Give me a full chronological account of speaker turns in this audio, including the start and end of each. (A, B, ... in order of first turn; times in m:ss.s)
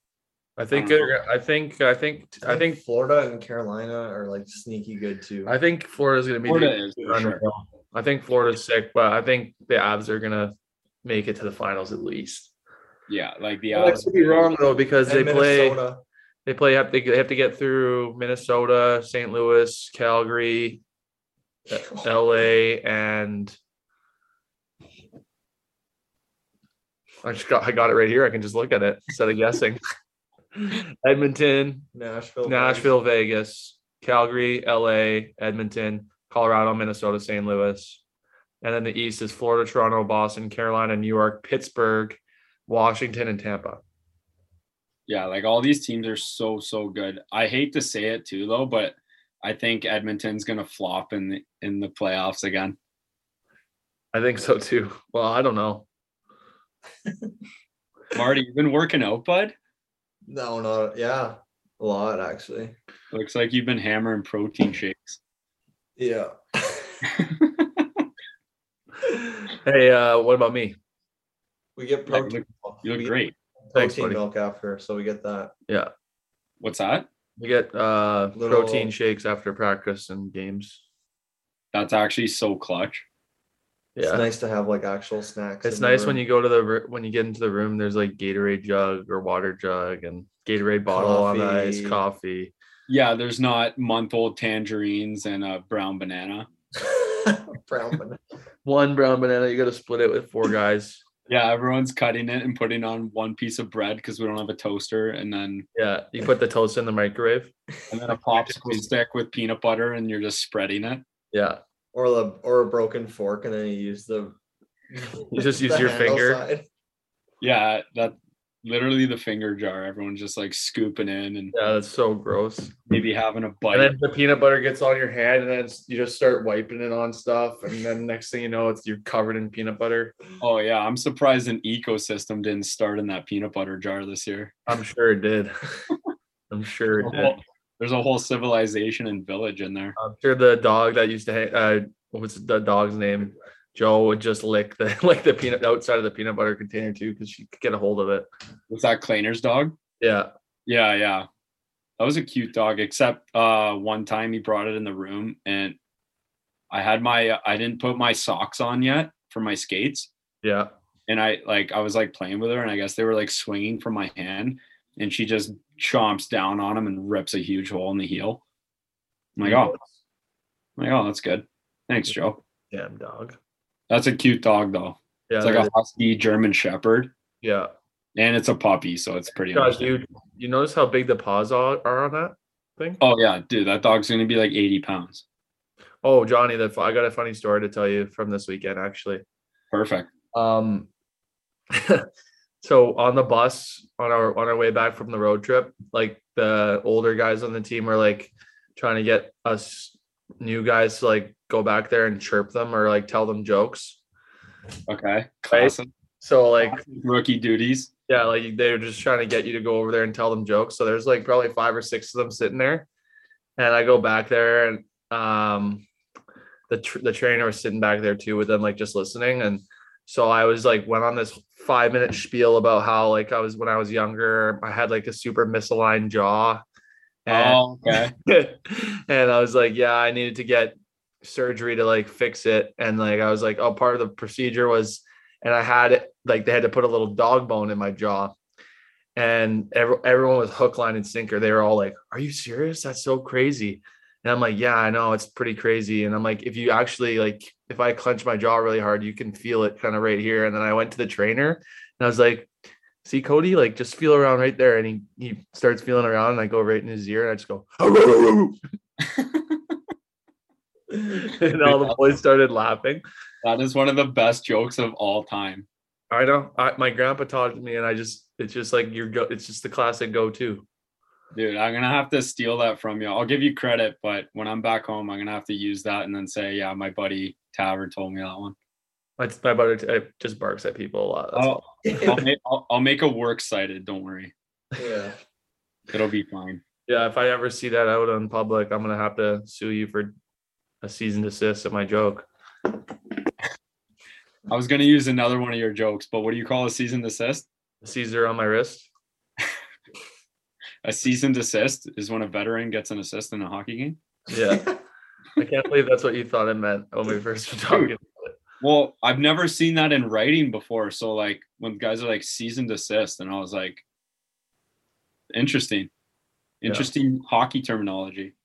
0:00.6-0:02.8 A
0:00.7-0:01.1 B
0:02.4-0:05.5 C
0:05.4-0:12.5 A
0:06.4-0:07.4 B
0:13.1-0:14.5 B
0:13.7-0:15.8 A
0:13.8-0:14.4 C
0:15.0-0:16.0 C
0:16.4-0:20.8 A
0:21.7-0:23.6 A
0:27.2-0:29.8 A
0:30.6-0:31.9 A
0:31.9-0:32.9 C
0:32.4-0:38.0 A
0:38.6-0:43.8 A
0:45.1-0:52.8 B
0:54.1-0:55.8 A
0:58.1-0:59.5 B
1:00.3-1:02.7 C
1:03.1-1:05.2 B
1:06.0-1:07.0 C
1:07.1-1:08.0 B
1:09.4-1:10.8 A
1:11.8-1:15.5 C
1:12.1-1:13.3 B
1:13.7-1:14.2 A
1:16.6-1:17.1 B
1:17.4-1:20.8 A
1:18.3-1:18.9 C
1:21.7-1:23.0 B
1:24.0-1:24.2 A
1:24.0-1:26.2 C
1:25.6-1:32.5 A
1:30.9-1:32.0 C
1:32.9-1:36.5 B
1:36.8-1:38.2 C
1:38.6-1:41.0 A
1:41.3-1:45.7 B
1:45.7-1:47.5 A
1:47.9-1:51.0 B
1:51.3-1:51.6 A
1:51.9-1:54.3 C
1:54.9-1:56.6 C
1:55.3-1:56.4 A
1:57.4-2:01.5 B
2:01.5-2:02.7 A
2:02.9-2:03.9 B
2:03.7-2:10.2 A
2:10.4-2:14.5 B
2:14.7-2:15.5 A
2:16.5-2:17.4 A
2:17.0-2:20.0 B
2:20.0-2:28.2 A
2:28.7-2:29.8 B
2:30.0-2:30.3 A
2:30.6-2:31.3 B
2:32.0-2:35.8 B
2:36.7-2:40.1 B
2:40.4-2:40.7 A
2:41.1-2:48.4 B
2:49.4-2:49.8 B
2:49.4-2:49.9 A
2:50.8-2:52.4 B
2:52.7-2:53.4 A
2:53.9-2:57.1 B
2:55.3-2:55.7 A
2:57.4-2:57.7 A
2:58.1-2:59.9 B
2:59.5-3:03.0 A
3:03.0-3:05.2 B
3:06.0-3:09.2 A
3:09.7-3:10.1 B
3:10.3-3:10.9 A
3:11.7-3:12.0 A
3:12.6-3:24.0 A
3:24.9-3:25.9 B
3:25.5-3:26.8 A
3:26.6-3:27.9 B
3:28.1-3:32.8 A
3:33.6-3:35.8 A
3:36.7-3:46.6 A
3:47.2-3:58.3 A
3:47.3-3:48.1 B
3:59.2-4:12.5 A
4:13.0-4:18.6 A
4:19.0-4:19.8 B
4:21.0-4:23.0 A
4:21.6-4:22.0 B
4:23.4-4:25.6 B
4:26.1-4:30.6 A
4:31.3-4:38.6 B
4:39.2-4:41.6 A
4:41.3-4:44.3 B
4:41.8-4:42.2 C
4:44.8-4:45.2 C
4:45.9-4:46.6 B
4:46.9-4:50.1 A
4:50.8-4:52.2 A
4:54.5-4:57.5 B
4:57.8-4:58.9 A
5:00.8-5:04.0 B
5:04.3-5:04.7 A
5:04.5-5:04.7 C
5:05.4-5:08.4 A
5:08.6-5:13.8 B
5:15.3-5:15.9 B
5:16.6-5:18.3 B